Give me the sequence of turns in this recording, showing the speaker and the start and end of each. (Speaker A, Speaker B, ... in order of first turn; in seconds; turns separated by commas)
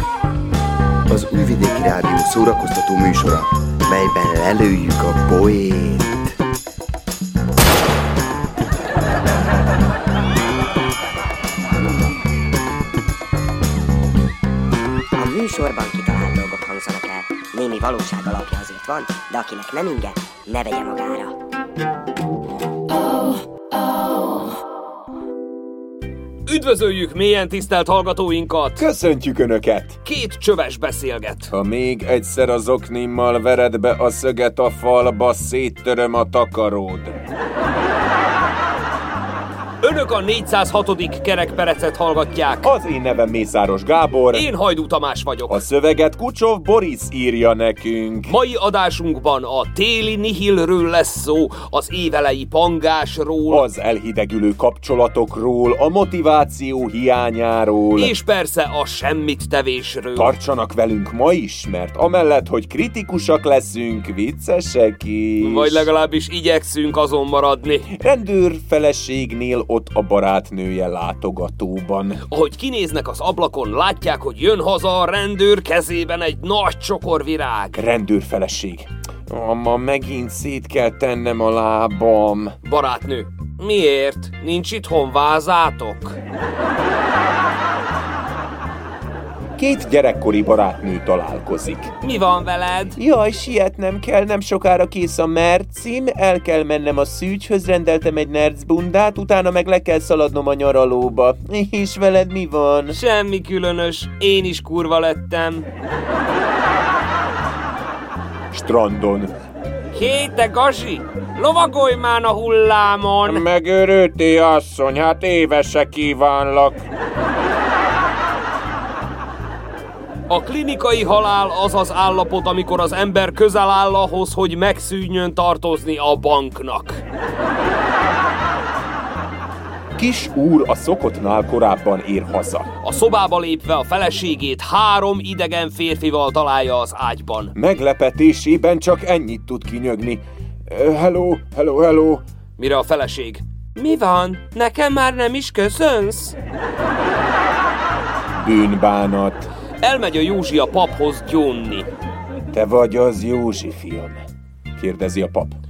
Speaker A: 1.1-6.3, Speaker B: 15.2-21.4, Speaker C: 26.4-28.8, Speaker D: 28.8-30.0, Speaker C: 30.0-31.5, Speaker D: 31.5-37.2, Speaker C: 39.8-42.7, Speaker D: 42.6-44.4, Speaker C: 44.3-45.6, Speaker D: 45.5-48.3, Speaker C: 48.3-53.6, Speaker D: 53.5-58.1, Speaker C: 58.0-60.3, Speaker D: 60.1-65.8, Speaker C: 65.4-67.9, Speaker D: 68.0-72.2, Speaker C: 72.3-77.8, Speaker D: 77.8-82.5, Speaker C: 82.6-86.2, Speaker D: 89.6-91.9, Speaker C: 92.0-93.0, Speaker D: 93.0-102.9, Speaker C: 102.9-105.7, Speaker D: 108.5-109.3, Speaker C: 109.9-113.4, Speaker D: 113.2-116.8, Speaker C: 120.3-127.0, Speaker D: 130.0-132.7, Speaker C: 132.8-137.5, Speaker D: 137.6-142.2, Speaker C: 142.6-146.3, Speaker D: 148.4-149.5, Speaker C: 149.8-151.9, Speaker D: 152.5-154.2, Speaker D: 154.8-155.6